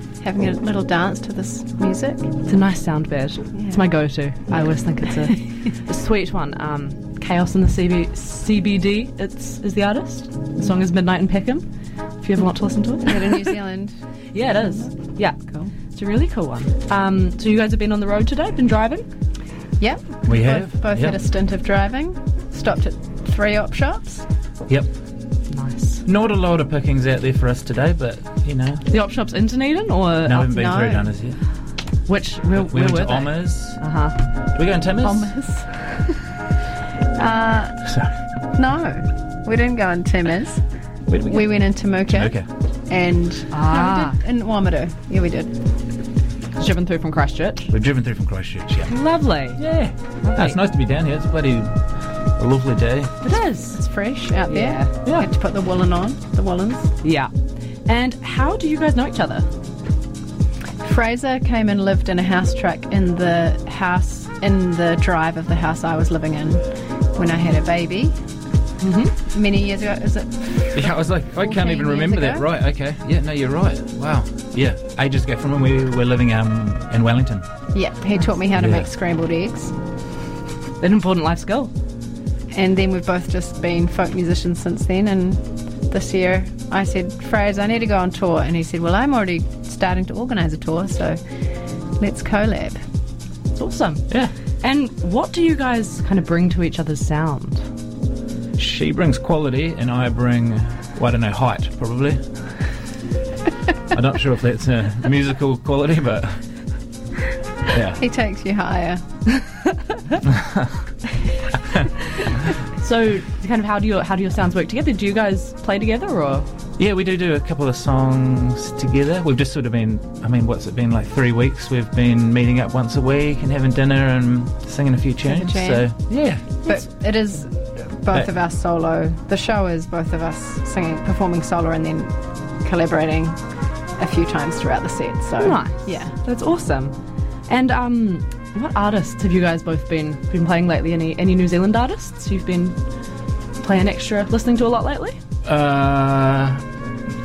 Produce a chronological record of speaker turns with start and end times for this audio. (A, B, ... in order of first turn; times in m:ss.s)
0:00.2-0:02.3 A
0:02.4-0:11.7 B
0:03.5-0:03.8 A
0:12.2-0:13.6 B
0:13.0-0:14.0 A
0:14.3-0:19.1 B
0:14.5-0:14.9 A
0:19.8-0:24.3 A
0:20.3-0:21.2 C
0:25.5-0:26.0 B
0:26.0-0:28.8 C
0:28.9-0:30.4 B
0:30.2-0:31.4 C
0:30.3-0:31.0 A
0:32.1-0:34.2 B
0:32.5-0:33.8 C
0:34.5-0:35.3 C
0:35.0-0:36.1 A
0:37.2-0:37.8 A
0:37.8-0:38.1 C
0:38.5-0:40.6 A
0:41.1-0:42.5 C
0:41.2-0:42.3 A
0:42.9-0:45.5 A
0:43.5-0:44.2 B
0:46.6-0:47.7 B
0:47.7-0:49.0 C
0:48.9-0:49.6 B
0:49.6-0:51.8 C
0:50.2-0:50.6 B
0:52.4-0:53.2 C
0:53.2-0:53.8 B
0:53.6-0:56.9 A
0:54.4-0:54.9 B
0:57.0-0:57.3 B
0:57.9-0:59.5 B
1:00.8-1:08.1 A
1:08.8-1:09.2 B
1:09.2-1:12.4 A
1:10.7-1:17.5 C
1:17.7-1:19.7 A
1:18.5-1:18.9 C
1:20.8-1:21.7 B
1:22.5-1:31.2 A
1:32.0-1:32.8 A
1:33.6-1:34.0 B
1:34.6-1:37.7 B
1:38.6-1:42.2 C
1:43.9-1:46.4 C
1:47.7-1:48.0 C
1:48.0-1:49.0 A
1:50.2-1:50.7 C
1:52.1-1:56.5 B
1:56.8-2:06.4 C
2:05.2-2:05.8 A
2:06.6-2:13.4 A
2:14.0-2:16.1 A
2:15.4-2:16.9 B
2:17.5-2:22.8 B
2:23.6-2:25.2 B
2:25.4-2:26.6 C